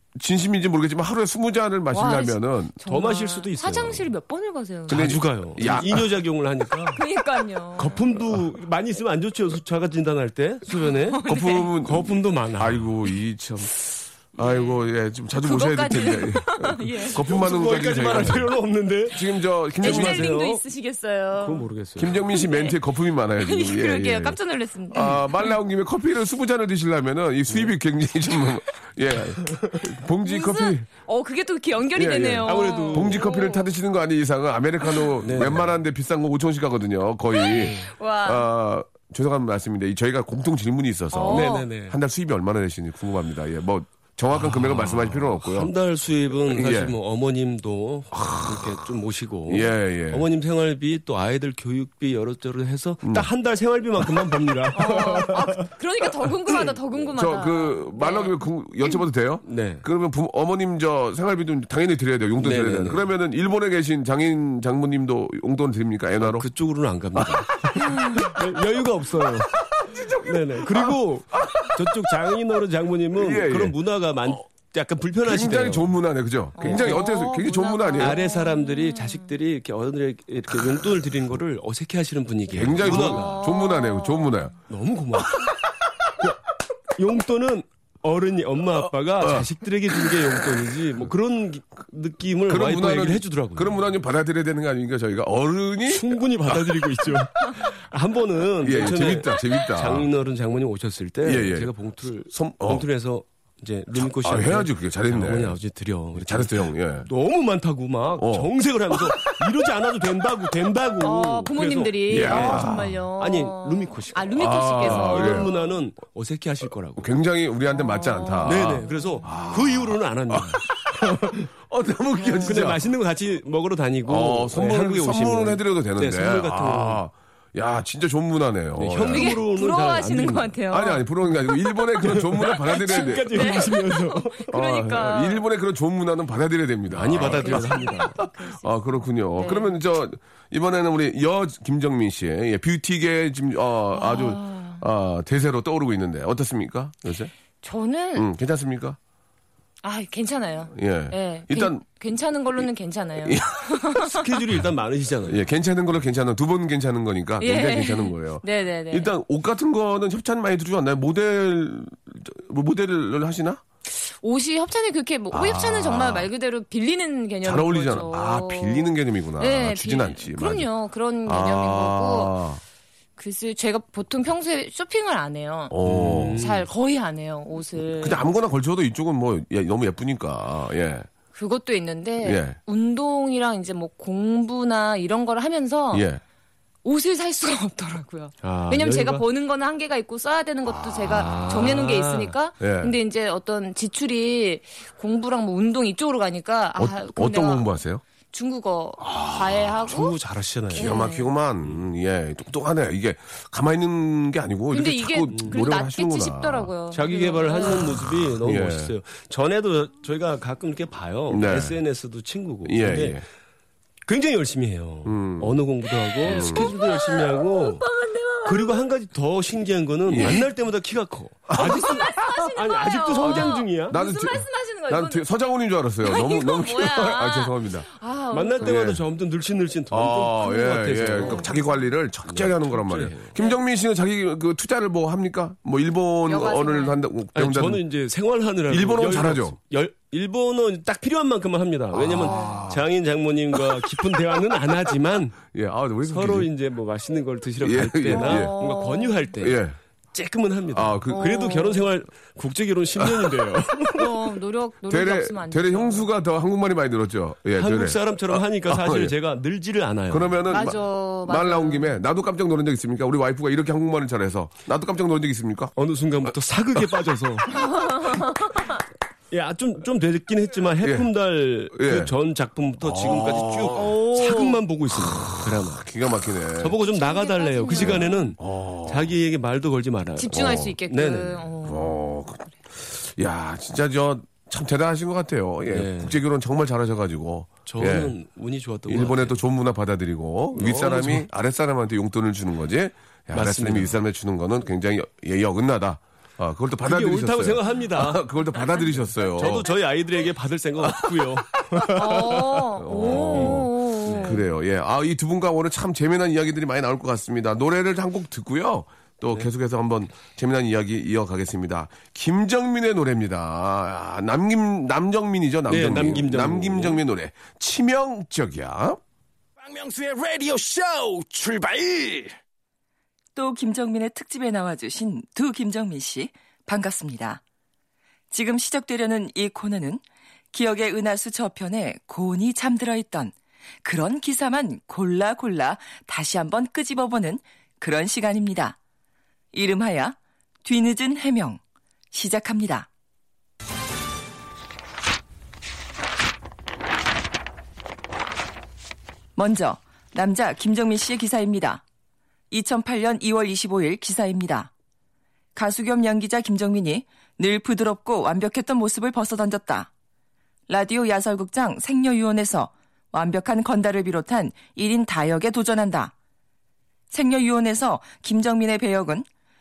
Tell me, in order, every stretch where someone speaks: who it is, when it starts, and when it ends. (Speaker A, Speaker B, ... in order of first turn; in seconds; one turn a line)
Speaker A: 0.1-2.7
Speaker B: 1.9-5.8
Speaker C: 2.9-4.1
Speaker A: 4.9-6.1
Speaker C: 4.9-7.0
Speaker B: 6.9-8.2
Speaker C: 7.8-11.2
Speaker B: 10.7-11.7
Speaker A: 11.2-18.5
Speaker C: 11.8-12.9
Speaker B: 14.4-14.8
Speaker B: 15.3-17.2
Speaker C: 17.1-20.6
Speaker A: 19.1-20.4
Speaker B: 19.8-21.6
Speaker C: 21.4-22.2
Speaker A: 22.0-24.4
Speaker B: 22.3-22.8
Speaker B: 23.4-25.5
Speaker A: 24.9-30.9
Speaker B: 30.2-33.7
Speaker A: 31.9-45.7
Speaker C: 32.4-33.2
Speaker C: 35.2-35.7
Speaker B: 37.3-38.5
Speaker C: 37.5-37.9
Speaker B: 41.1-41.7
Speaker C: 41.3-42.0
Speaker C: 44.3-55.7
Speaker A: 46.5-47.0
Speaker A: 48.1-48.8
Speaker A: 49.5-50.2
Speaker A: 53.0-53.3
Speaker B: 54.7-59.0
Speaker A: 57.1-66.5
Speaker C: 59.5-59.8
Speaker C: 62.4-63.1
Speaker C: 66.2-69.6
Speaker A: 67.2-68.2
Speaker B: 67.9-68.2
Speaker A: 69.6-72.4
Speaker C: 70.2-76.0
Speaker A: 73.1-73.8
Speaker A: 75.2-78.2
Speaker B: 76.6-79.3
Speaker C: 76.6-77.1
Speaker C: 78.0-83.4
Speaker A: 82.5-84.5
Speaker B: 82.9-84.5
Speaker C: 84.7-85.5
Speaker C: 87.0-93.8
Speaker A: 89.2-90.5
Speaker A: 92.5-96.0
Speaker C: 95.9-112.7
Speaker A: 98.6-100.1
Speaker A: 101.2-101.7
Speaker A: 102.3-102.8
Speaker A: 103.9-105.6
Speaker A: 106.1-107.1
Speaker A: 108.2-108.5
Speaker B: 111.0-115.7
Speaker A: 112.1-113.0
Speaker C: 113.2-117.1
Speaker A: 114.4-115.5
Speaker A: 117.0-122.8
Speaker B: 117.7-119.3
Speaker C: 118.4-121.5
Speaker B: 122.2-122.6
Speaker C: 122.4-127.0
Speaker A: 124.1-129.4
Speaker C: 128.8-130.5
Speaker B: 129.1-131.0
Speaker A: 130.7-133.7
Speaker C: 132.0-134.5
Speaker B: 132.8-135.4
Speaker A: 134.5-147.3
Speaker C: 136.9-138.2
Speaker B: 137.2-138.7
Speaker B: 139.3-139.8
Speaker B: 143.9-144.8
Speaker B: 147.6-148.3
Speaker A: 148.1-149.0
Speaker B: 149.8-154.2
Speaker A: 150.7-151.8
Speaker A: 153.2-153.8
Speaker C: 154.0-155.4
Speaker A: 155.3-163.6
Speaker B: 157.4-159.1
Speaker B: 163.9-172.3
Speaker A: 165.3-166.3
Speaker A: 167.4-170.7
Speaker A: 171.2-172.6
Speaker B: 173.2-178.2
Speaker A: 175.7-176.4
Speaker C: 175.8-176.7
Speaker A: 178.0-181.1
Speaker B: 181.3-186.1
Speaker A: 182.2-182.6
Speaker A: 185.9-186.2
Speaker B: 186.8-197.7
Speaker C: 188.4-189.2
Speaker A: 190.7-191.3
Speaker C: 191.1-192.3
Speaker A: 192.6-192.9
Speaker A: 196.8-198.0
Speaker B: 198.3-200.1
Speaker A: 199.0-199.7
Speaker C: 199.9-201.0
Speaker B: 200.7-201.3
Speaker A: 200.7-206.7
Speaker B: 204.7-208.0
Speaker C: 205.3-205.6
Speaker C: 206.9-213.2
Speaker A: 208.4-208.9
Speaker A: 211.3-211.8
Speaker A: 212.6-213.2
Speaker C: 214.1-217.9
Speaker A: 215.0-215.6
Speaker A: 216.2-216.7
Speaker B: 216.2-218.8
Speaker C: 218.4-223.9
Speaker A: 220.1-220.4
Speaker A: 221.5-221.9
Speaker B: 221.6-225.2
Speaker A: 223.2-227.9
Speaker B: 226.0-228.8
Speaker C: 228.3-231.6
Speaker A: 228.6-229.0
Speaker A: 229.9-237.8
Speaker B: 231.2-231.6
Speaker C: 232.3-233.3
Speaker B: 236.2-237.0
Speaker C: 237.3-245.5
Speaker A: 238.7-239.6
Speaker A: 241.9-242.8
Speaker B: 242.2-242.6
Speaker A: 245.5-246.5
Speaker C: 246.1-249.6
Speaker A: 247.6-248.5
Speaker B: 248.1-249.3
Speaker A: 249.4-249.8
Speaker C: 250.1-254.1
Speaker A: 250.7-251.4
Speaker B: 251.1-251.8
Speaker A: 253.0-253.3
Speaker B: 253.9-256.1
Speaker A: 254.9-259.1
Speaker C: 257.6-260.4
Speaker A: 260.1-265.7
Speaker B: 260.5-262.0
Speaker C: 265.8-267.7
Speaker B: 267.6-268.4
Speaker C: 269.3-275.9
Speaker A: 270.8-271.1
Speaker A: 271.7-272.1
Speaker A: 272.8-274.0
Speaker B: 274.2-274.5
Speaker A: 275.0-276.8
Speaker C: 276.6-281.4
Speaker B: 276.9-278.3
Speaker A: 277.7-279.1
Speaker B: 280.2-282.0
Speaker A: 280.3-280.7
Speaker A: 281.6-288.1
Speaker C: 285.7-286.2
Speaker C: 287.6-289.4
Speaker A: 288.9-299.7
Speaker C: 290.5-291.3
Speaker C: 293.3-294.0
Speaker C: 296.8-298.2
Speaker C: 299.2-302.0
Speaker A: 300.8-319.0
Speaker B: 301.9-304.4
Speaker C: 303.1-304.4
Speaker C: 315.7-317.0
Speaker D: 319.6-322.3
Speaker E: 323.3-327.4
Speaker E: 328.3-330.0
Speaker E: 330.5-338.8
Speaker E: 339.5-341.6
Speaker E: 342.1-342.9
Speaker E: 349.4-351.8
Speaker E: 352.5-354.7
Speaker E: 355.6-359.9
Speaker E: 360.7-366.1
Speaker E: 367.1-369.2